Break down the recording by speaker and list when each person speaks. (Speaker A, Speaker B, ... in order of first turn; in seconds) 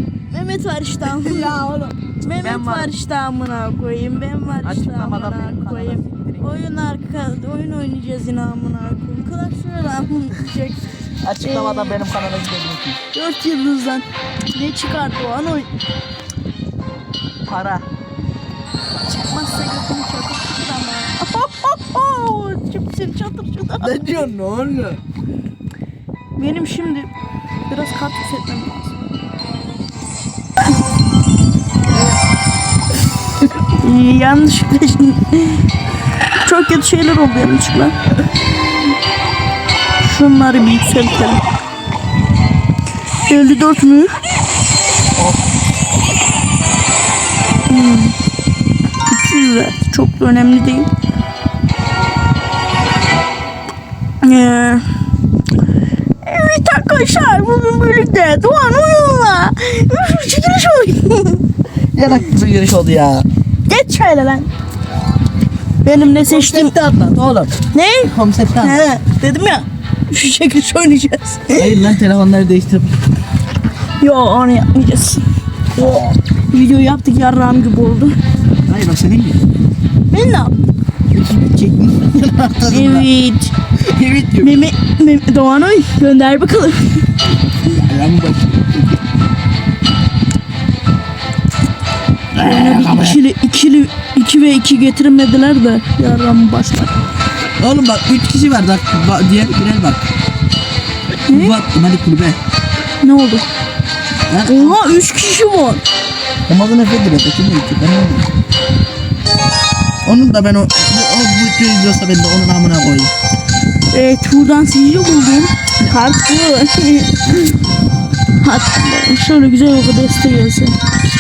Speaker A: 0.3-10.8, 11.4-12.0, 13.1-15.7, 19.0-24.3, 26.4-27.1, 27.7-28.9, 33.8-35.7, 36.4-38.0, 40.0-41.4, 43.3-44.2, 47.7-48.2, 49.0-50.9, 54.2-54.9, 56.2-61.4, 63.7-64.5, 65.8-66.7, 67.7-71.9, 74.0-78.2, 80.1-80.5, 82.7-83.5, 84.4-87.0, 92.4-96.9, 101.2-101.6, 103.0-103.5, 104.5-105.8, 113.9-117.5, 118.3-120.8
Speaker B: 1.2-1.9, 2.4-2.9, 4.6-6.6, 11.2-13.0, 17.4-17.9, 23.8-25.0, 62.0-63.3, 66.2-67.6, 68.1-68.8, 71.6-72.9, 75.8-76.1, 78.7-79.4, 81.1-83.1, 83.9-84.6, 87.6-89.0, 92.3-93.2, 97.6-100.0, 101.3-102.4, 104.3-104.8, 106.5-108.3, 110.0-113.1